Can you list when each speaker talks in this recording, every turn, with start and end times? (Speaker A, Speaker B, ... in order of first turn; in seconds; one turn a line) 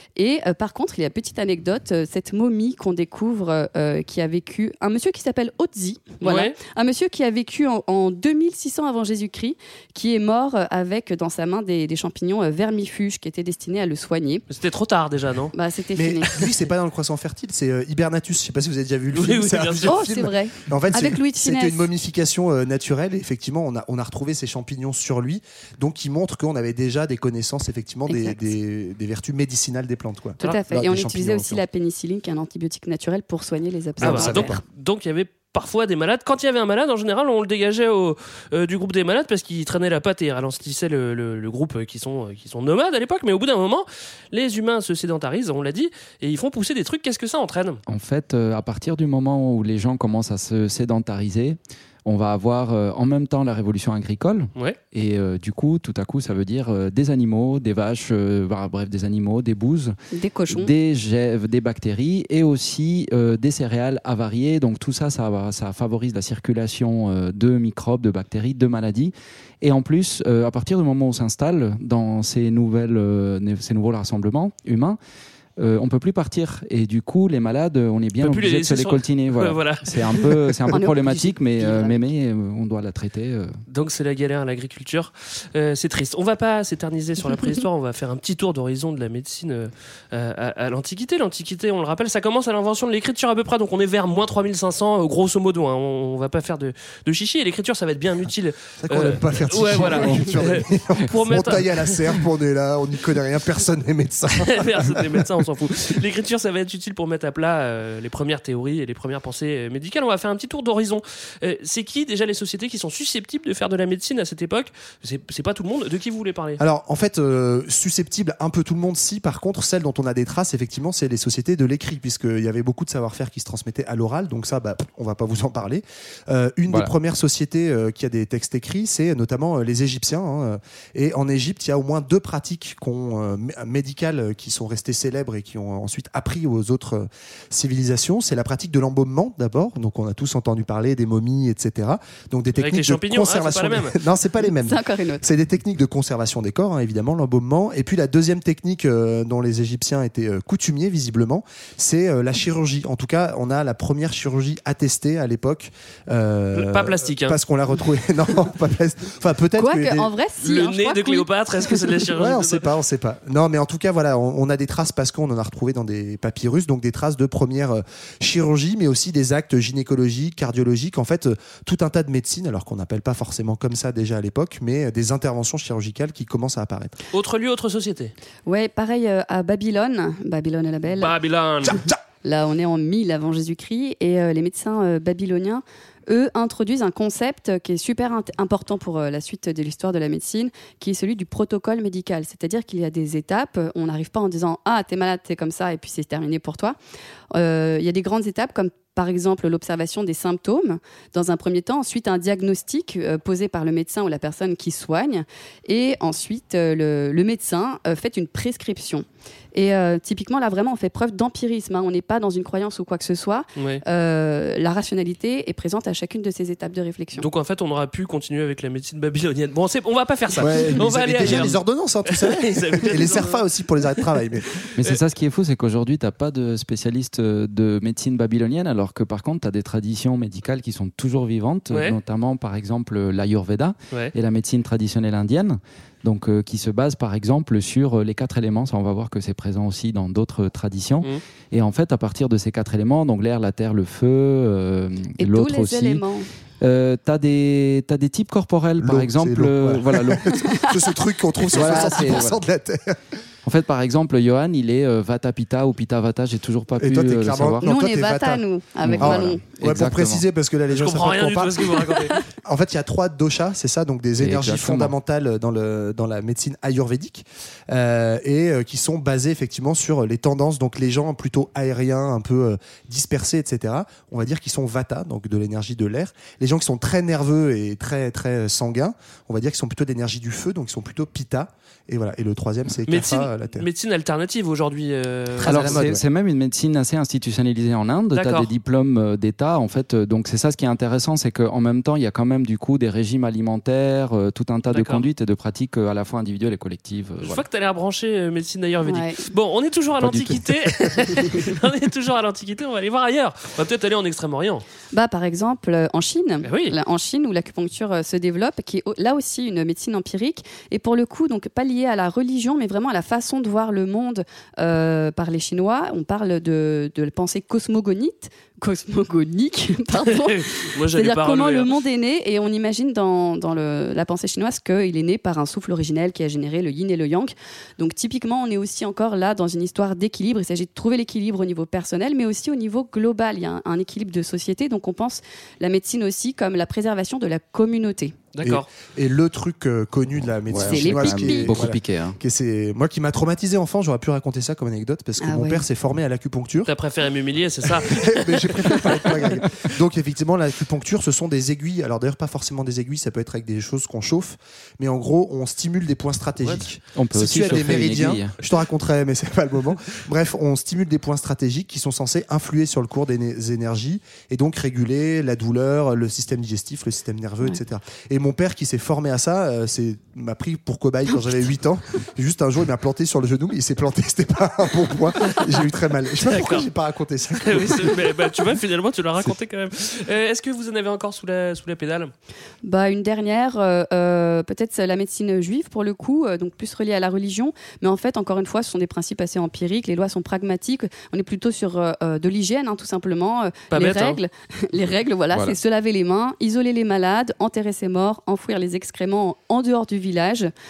Speaker A: 0.1-14.4
Speaker B: 6.2-6.6
Speaker B: 14.5-15.5
Speaker A: 15.5-16.5
Speaker C: 16.0-31.6
Speaker B: 19.1-20.1
Speaker A: 19.9-21.9
Speaker A: 28.1-28.4
Speaker A: 30.4-34.6
Speaker C: 34.0-34.6
Speaker B: 34.0-47.8
Speaker D: 47.9-60.0
Speaker A: 60.1-60.7
Speaker D: 60.5-75.0
Speaker D: 75.6-83.5
Speaker B: 78.2-80.5
Speaker A: 80.7-82.0
Speaker B: 83.7-102.0
Speaker C: 98.8-105.2
Speaker B: 104.3-116.6
Speaker C: 116.6-160.1
Speaker B: 142.6-144.0
Speaker A: 144.4-145.2
Speaker B: 156.5-157.4
Speaker A: 159.6-161.3
Speaker B: 160.4-162.7
Speaker C: 162.1-176.9
Speaker B: 177.1-178.1
Speaker A: 178.4-181.1
Speaker B: 181.0-181.9
Speaker A: 182.2-196.8
Speaker A: 197.3-217.3
Speaker B: 213.6-213.8
Speaker B: 217.2-224.1
Speaker C: 220.3-224.6
Speaker D: 221.2-221.5
Speaker B: 224.7-225.0
Speaker D: 224.7-246.0
Speaker B: 231.7-232.0
Speaker A: 245.2-246.3
Speaker D: 246.6-250.4
Speaker C: 248.8-253.0
Speaker A: 250.4-250.7
Speaker D: 251.5-252.4
Speaker A: 251.5-252.2
Speaker D: 253.4-257.7
Speaker C: 256.8-283.7
Speaker A: 257.6-259.4
Speaker D: 258.8-260.2
Speaker B: 260.7-262.2
Speaker D: 264.2-264.9
Speaker B: 282.9-285.9
Speaker C: 285.4-286.0
Speaker D: 285.4-297.4
Speaker B: 288.1-288.5
Speaker B: 294.6-295.1
Speaker B: 297.2-304.6
Speaker A: 298.9-299.3
Speaker C: 300.0-301.0
Speaker A: 304.9-338.1
Speaker B: 306.4-306.8
Speaker B: 320.1-321.7
Speaker B: 338.3-338.7
Speaker C: 338.4-346.7
Speaker D: 340.5-342.2
Speaker A: 340.6-341.6
Speaker A: 345.2-345.6
Speaker B: 346.6-349.4
Speaker C: 347.6-378.1
Speaker D: 356.7-358.3
Speaker B: 357.4-357.7
Speaker B: 376.2-376.7
Speaker B: 377.4-382.1
Speaker A: 382.6-400.5
Speaker B: 393.7-394.2